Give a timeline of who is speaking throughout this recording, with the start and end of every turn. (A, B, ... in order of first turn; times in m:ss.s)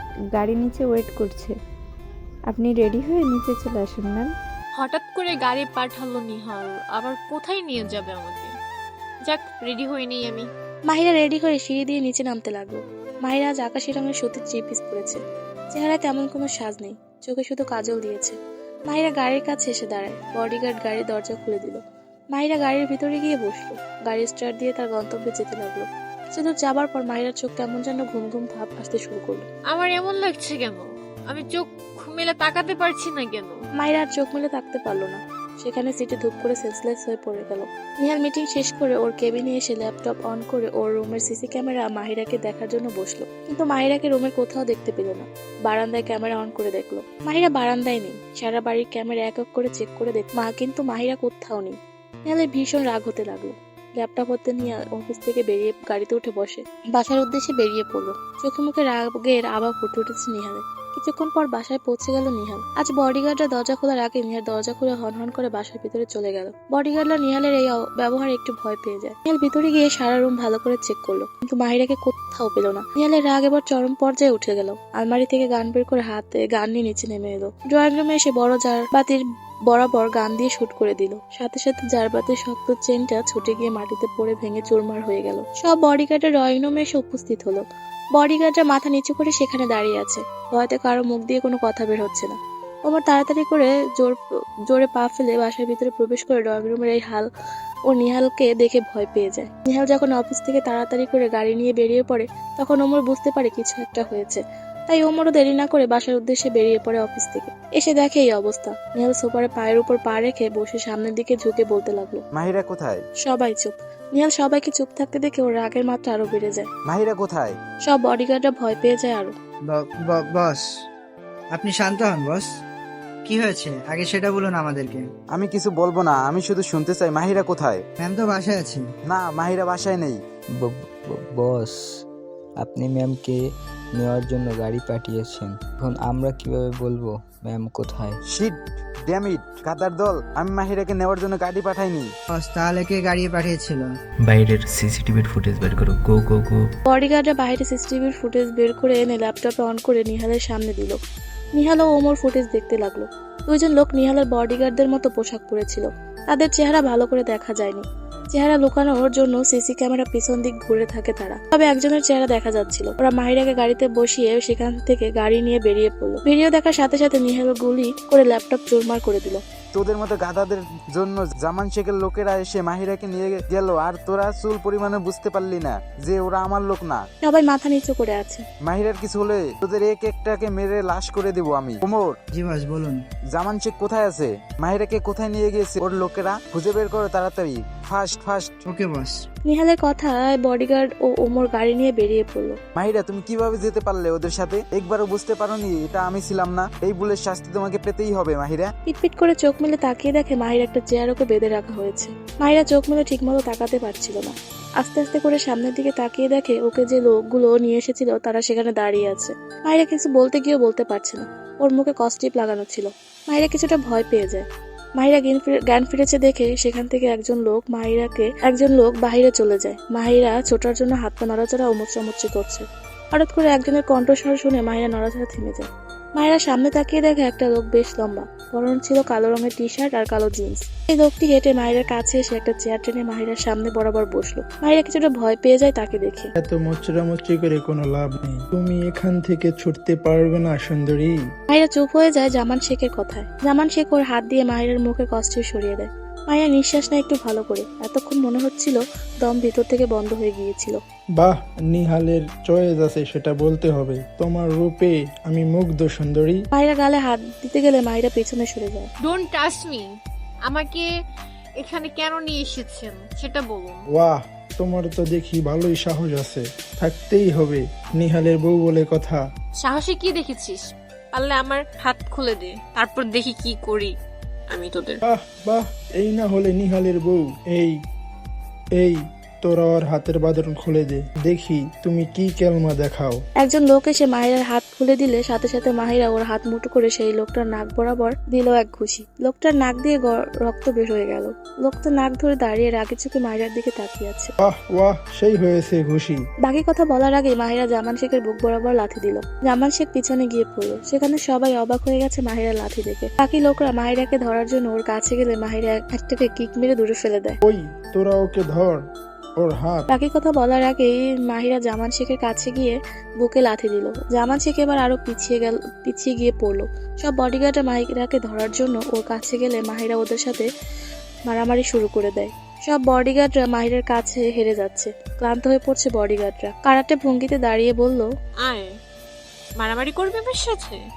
0:00.3-0:01.6 A
0:02.5-0:04.3 A
0:04.8-0:08.5 B
0:09.3-0:10.5 B
0:10.9-0:15.2 C
0:15.7-0:18.4 C
0:18.9-0:21.8 C
0:22.3-0:29.5 C
0:29.7-0:33.6 B
0:33.8-1:27.6 C
1:28.2-1:32.4 C
1:32.9-1:34.2 C
1:34.7-1:37.3 C
1:37.9-1:52.2 C
1:52.4-1:53.0 D
1:53.3-1:56.7 C
1:56.9-1:57.6 D
1:57.9-1:59.3 C
1:59.7-2:00.6 E
2:01.5-2:02.5 E
2:03.3-2:05.0 E
2:05.3-2:07.8 D
2:08.0-2:08.8 E
2:09.1-2:10.2 D
2:10.6-2:11.8 F
2:12.6-2:13.4 F
2:14.0-2:18.2 F
2:19.1-2:22.1 D
2:22.3-2:23.9 E
2:24.2-2:26.7 G
2:26.9-2:31.0 C
2:31.6-2:49.4 C
2:49.7-2:57.0 D
2:57.2-2:58.4 C
2:58.6-3:02.2 D
3:02.3-3:03.0 E
3:03.3-3:08.6 D
3:08.7-3:09.2 E
3:09.5-3:12.6 C
3:12.8-3:18.7 D
3:18.9-3:34.5 C
3:35.0-3:56.3 C
3:56.4-4:01.1 H
4:01.5-4:10.8 C
4:11.2-4:16.4 H
4:16.5-4:18.9 C
4:19.0-4:19.9 B
4:20.5-4:20.9 B
4:21.6-4:23.8 B
4:23.9-4:29.2 H
4:29.6-4:30.6 B
4:31.1-4:33.9 B
4:34.5-4:35.0 B
4:35.1-4:37.7 H
4:38.8-4:43.2 H
4:43.4-4:54.3 C
4:54.4-4:56.2 H
4:56.5-5:07.4 C
5:07.4-5:08.8 H
5:09.4-5:09.9 H
5:09.9-5:20.5 C
5:21.3-5:28.1 C
5:28.4-5:28.7 B
5:29.6-5:30.8 B